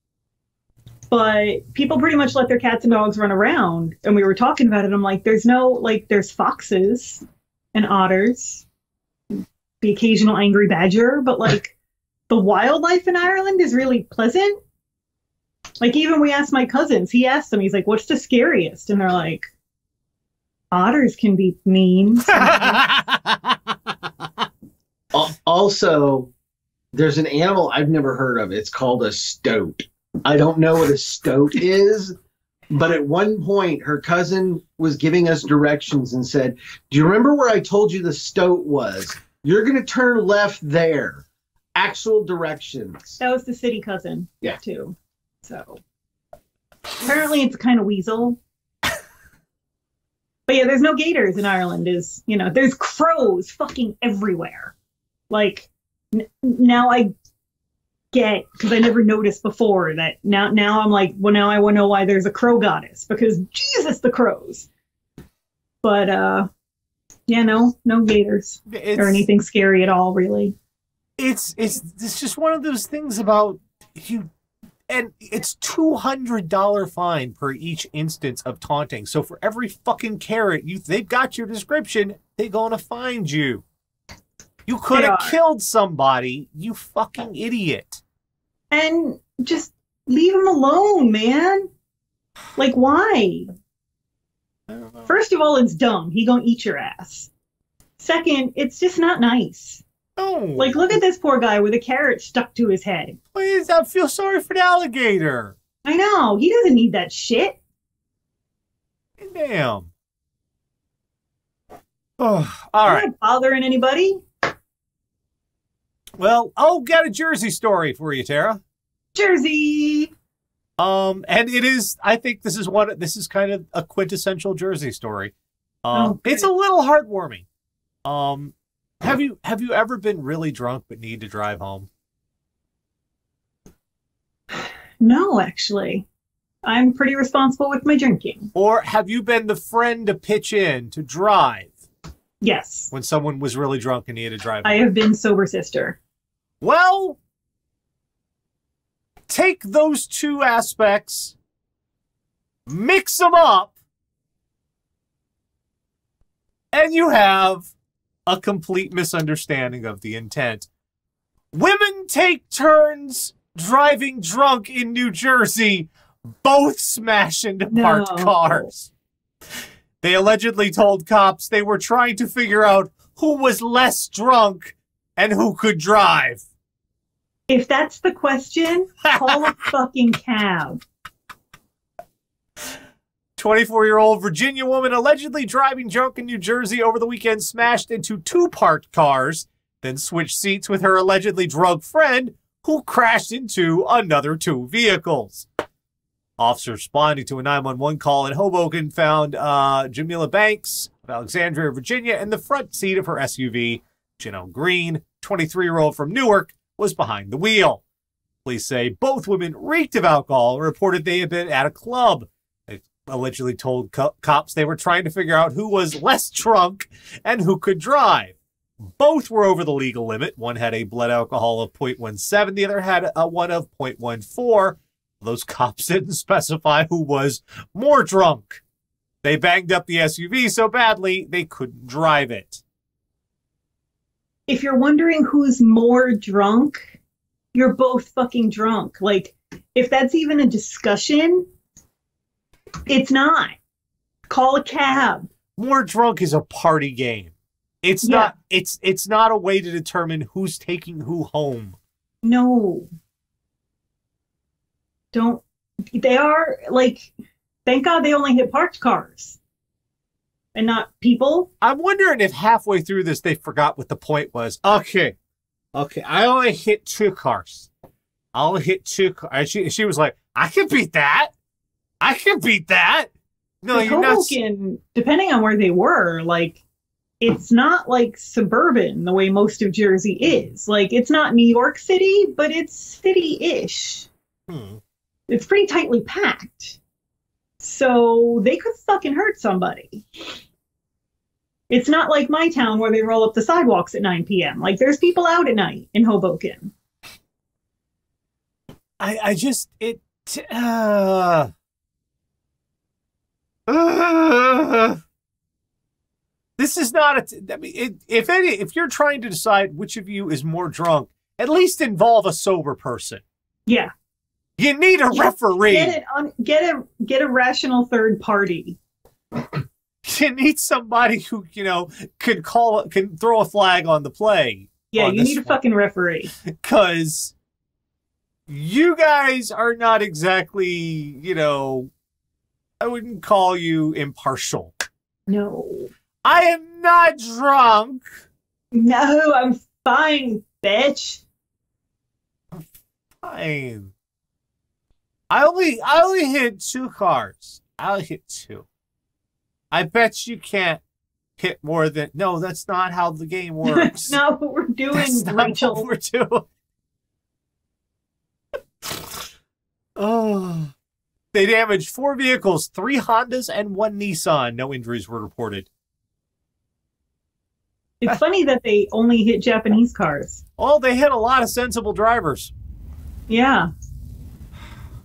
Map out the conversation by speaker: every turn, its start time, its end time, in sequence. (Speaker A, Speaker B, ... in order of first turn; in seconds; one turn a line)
Speaker A: 1.1-8.6
Speaker A: 9.8-11.7
Speaker A: 12.3-14.6
Speaker A: 15.8-19.4
Speaker A: 20.7-22.8
Speaker B: 22.3-23.7
Speaker C: 25.1-26.3
Speaker C: 26.9-32.1
Speaker C: 32.7-41.2
Speaker C: 41.7-43.2
Speaker A: 43.2-45.8
Speaker A: 47.0-48.4
Speaker A: 50.5-54.7
Speaker A: 55.3-57.1
Speaker A: 58.1-64.7
Speaker A: 65.8-66.5
Speaker A: 67.3-70.5
Speaker B: 68.7-69.2
Speaker B: 71.2-74.3
Speaker B: 74.9-83.6
Speaker B: 84.7-88.0
Speaker A: 84.9-85.4
Speaker A: 88.7-91.7
Speaker A: 92.6-93.5
Speaker B: 94.7-95.1
Speaker A: 95.0-97.3
Speaker A: 98.0-99.8
Speaker B: 100.2-100.9
Speaker A: 100.6-103.2
Speaker B: 103.3-105.5
Speaker A: 105.8-107.6
Speaker B: 109.2-109.9
Speaker B: 112.2-113.1
Speaker A: 112.8-114.2
Speaker B: 116.2-118.6
Speaker A: 119.1-120.1
Speaker B: 120.8-127.4
Speaker A: 125.9-126.5
Speaker B: 128.0-131.9
Speaker A: 135.0-136.1
Speaker A: 136.6-138.5
Speaker B: 138.5-141.8
Speaker A: 142.4-142.9
Speaker B: 142.9-144.8
Speaker A: 144.6-146.0
Speaker B: 146.6-147.2
Speaker B: 149.3-151.3
Speaker B: 152.7-153.7
Speaker B: 156.7-157.7
Speaker B: 158.3-160.7
Speaker B: 161.5-165.9
Speaker B: 166.4-168.9
Speaker A: 167.7-168.7
Speaker B: 170.0-176.4
Speaker A: 177.5-180.8
Speaker B: 179.1-179.6
Speaker B: 183.4-195.5
Speaker B: 196.4-207.8
Speaker B: 208.4-218.3
Speaker B: 218.9-228.6
Speaker B: 229.2-232.6
Speaker A: 234.5-237.0
Speaker A: 237.5-241.5
Speaker A: 242.9-243.6
Speaker A: 244.3-245.3
Speaker B: 245.6-251.8
Speaker A: 248.0-248.3
Speaker A: 252.2-252.9
Speaker A: 255.1-257.1
Speaker A: 257.6-259.4
Speaker A: 260.5-261.5
Speaker B: 261.6-265.1
Speaker B: 265.7-267.7
Speaker B: 268.3-271.3
Speaker B: 272.0-273.1
Speaker B: 273.6-274.4
Speaker A: 273.7-276.6
Speaker A: 277.2-284.1
Speaker B: 284.5-284.8
Speaker A: 285.3-286.8
Speaker A: 287.6-290.0
Speaker A: 291.7-296.7
Speaker B: 299.0-301.5
Speaker B: 303.7-305.0
Speaker B: 306.6-313.2
Speaker B: 314.6-315.9
Speaker A: 315.1-318.8
Speaker B: 320.0-325.6
Speaker A: 324.9-326.3
Speaker B: 326.5-327.3
Speaker B: 328.5-331.9
Speaker B: 332.8-334.8
Speaker A: 335.3-335.9
Speaker B: 336.2-338.1
Speaker A: 338.7-341.2
Speaker B: 343.2-343.9
Speaker B: 345.3-348.6
Speaker B: 349.7-350.8
Speaker B: 351.4-354.2
Speaker A: 353.6-355.9
Speaker B: 354.9-356.4
Speaker B: 358.8-359.2
Speaker B: 360.0-360.7
Speaker B: 361.3-365.7
Speaker A: 368.0-370.4
Speaker B: 370.6-372.5
Speaker A: 373.3-373.7